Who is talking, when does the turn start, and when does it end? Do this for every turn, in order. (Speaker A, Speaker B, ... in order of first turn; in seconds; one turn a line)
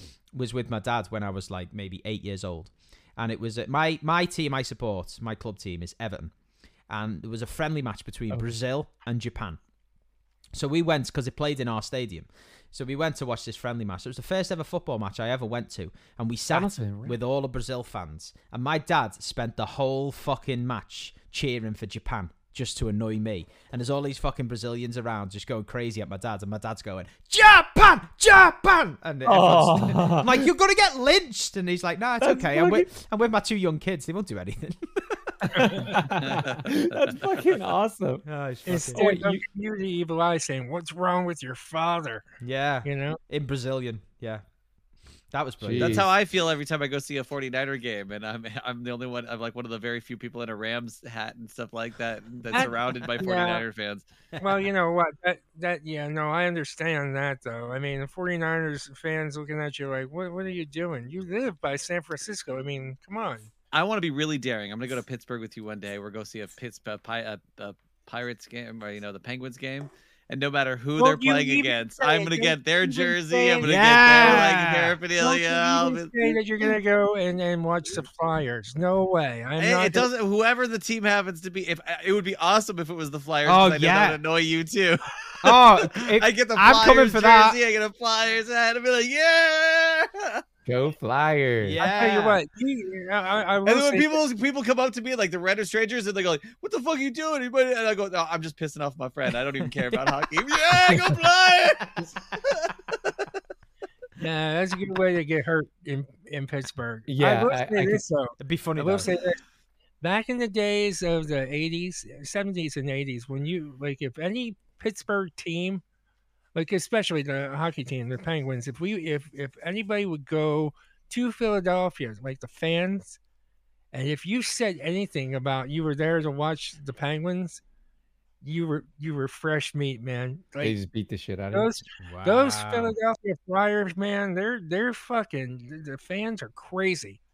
Speaker A: 0.3-6.3
Speaker A: 6.9-9.6
Speaker B: 8.3-8.6
Speaker A: 10.5-36.0
Speaker B: 16.5-17.2
Speaker B: 29.2-30.5
Speaker B: 32.2-32.9
Speaker B: 35.4-39.4
Speaker C: 35.5-36.0
Speaker D: 36.2-37.2
Speaker A: 38.3-39.0
Speaker C: 38.7-42.2
Speaker A: 42.4-44.4
Speaker C: 42.8-43.2
Speaker A: 45.3-46.1
Speaker B: 45.6-46.1
Speaker D: 45.8-54.1
Speaker C: 52.5-53.6
Speaker C: 54.4-63.5
Speaker D: 63.7-76.4
Speaker C: 71.0-74.5
Speaker A: 73.6-75.0
Speaker C: 75.2-80.1
Speaker D: 79.6-90.4
Speaker A: 83.5-84.2
Speaker A: 85.4-87.6
Speaker B: 90.7-91.8
Speaker A: 91.6-92.4
Speaker C: 91.8-94.2
Speaker D: 93.7-103.2
Speaker C: 104.2-109.4
Speaker B: 107.1-108.0
Speaker A: 108.4-109.1
Speaker C: 110.0-115.8
Speaker C: 116.5-123.2
Speaker C: 123.9-127.6
Speaker C: 128.4-130.8
Speaker B: 130.6-131.7
Speaker C: 131.5-137.2
Speaker A: 132.0-132.9